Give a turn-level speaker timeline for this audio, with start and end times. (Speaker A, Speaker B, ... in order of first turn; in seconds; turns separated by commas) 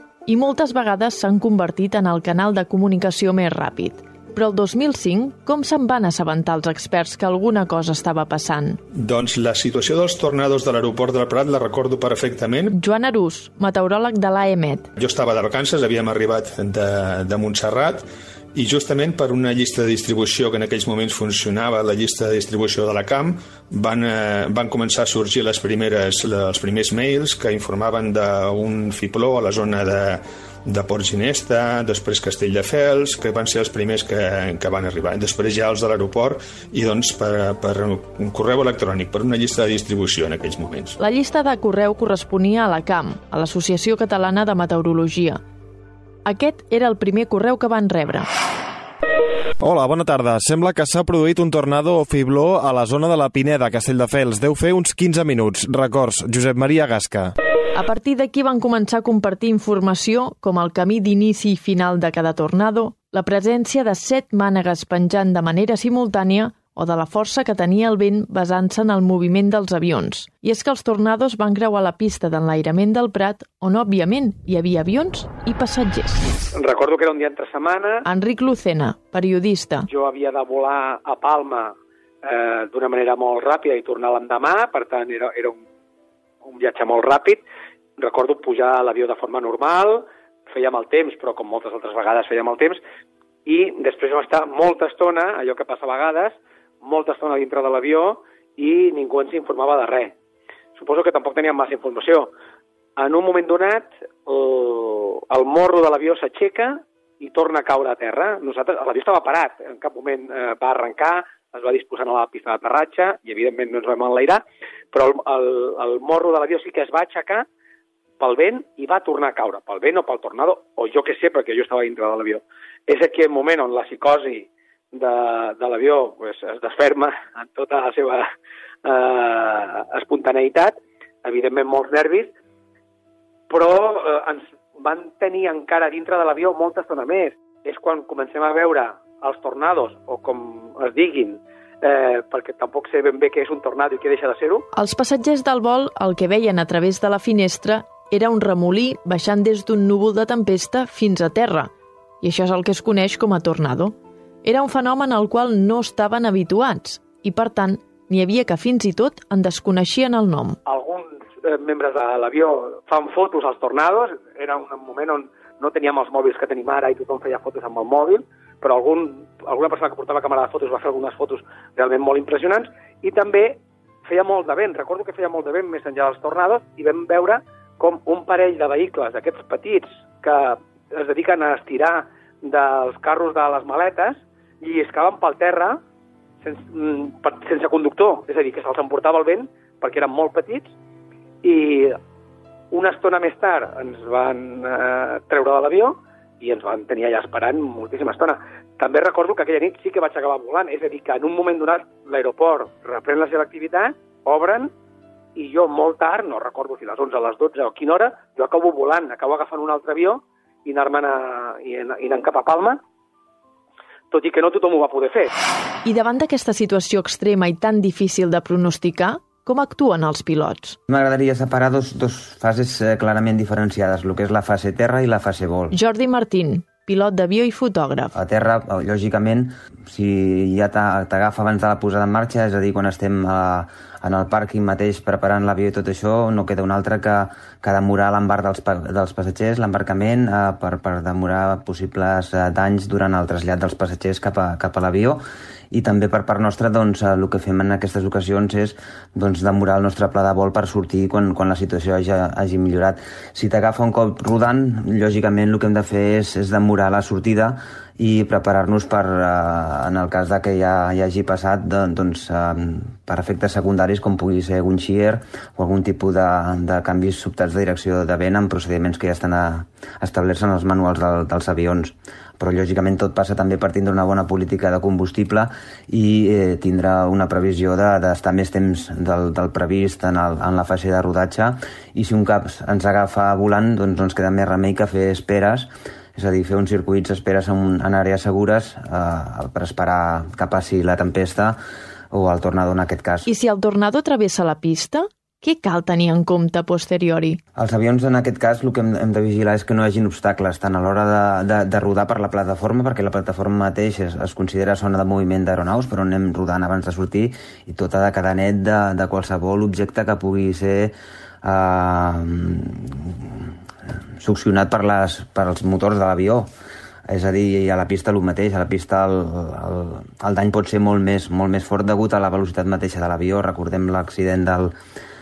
Speaker A: 0.2-8.8, Speaker B: 9.0-12.7, Speaker A: 12.7-14.9, Speaker B: 15.0-41.0, Speaker A: 41.0-45.4, Speaker A: 46.2-48.3, Speaker C: 49.6-57.3, Speaker A: 57.7-76.2, Speaker D: 76.5-78.0, Speaker A: 78.1-79.9, Speaker D: 79.9-85.6, Speaker D: 86.5-87.4, Speaker D: 88.0-92.8, Speaker D: 93.5-100.1, Speaker D: 100.8-102.3, Speaker D: 103.0-117.5, Speaker D: 118.2-128.3, Speaker D: 128.8-132.3, Speaker D: 133.5-144.7, Speaker A: 144.7-151.7, Speaker A: 152.2-160.6, Speaker D: 160.7-185.8, Speaker D: 186.4-190.7, Speaker D: 191.4-192.0, Speaker D: 192.7-204.7, Speaker D: 205.3-212.8, Speaker D: 214.1-215.3, Speaker A: 215.8-220.8, Speaker E: 220.9-225.7, Speaker A: 225.7-228.1, Speaker E: 228.1-245.2, Speaker E: 245.7-291.6, Speaker E: 292.1-293.3, Speaker A: 293.2-297.4, Speaker E: 297.6-310.9, Speaker E: 311.4-313.1, Speaker E: 314.2-316.5, Speaker E: 317.1-324.7